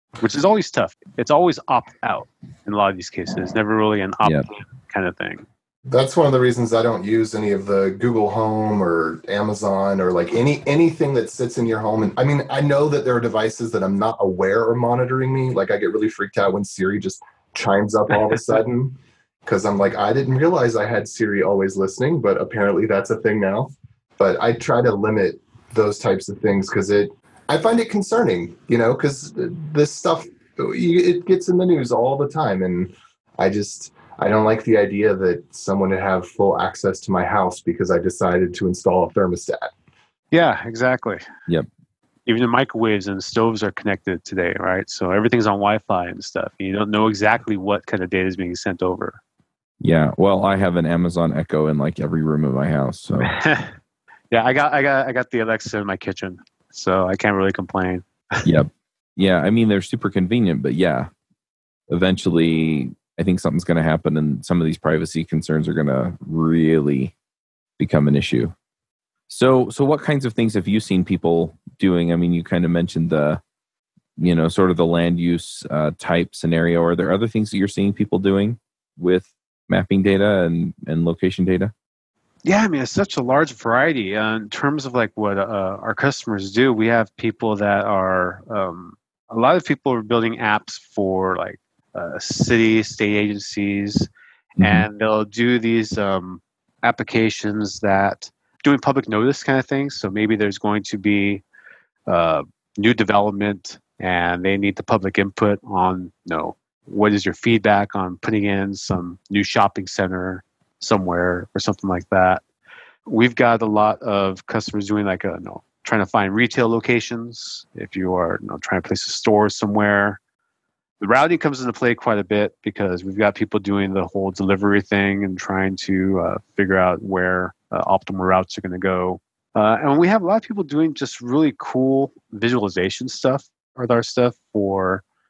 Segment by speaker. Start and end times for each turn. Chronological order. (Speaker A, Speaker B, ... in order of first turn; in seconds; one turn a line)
Speaker A: 0.2-5.5
Speaker B: 5.9-39.7
Speaker A: 40.3-41.2
Speaker A: 42.3-49.2
Speaker C: 49.8-53.3
Speaker A: 53.2-53.7
Speaker A: 54.3-58.5
Speaker C: 58.5-61.1
Speaker C: 61.9-67.1
Speaker C: 67.8-68.5
Speaker C: 69.3-73.4
Speaker C: 74.2-81.7
Speaker A: 82.5-94.1
Speaker C: 94.6-94.9
Speaker A: 94.6-101.4
Speaker A: 102.1-112.4
Speaker A: 113.1-120.2
Speaker A: 121.0-135.0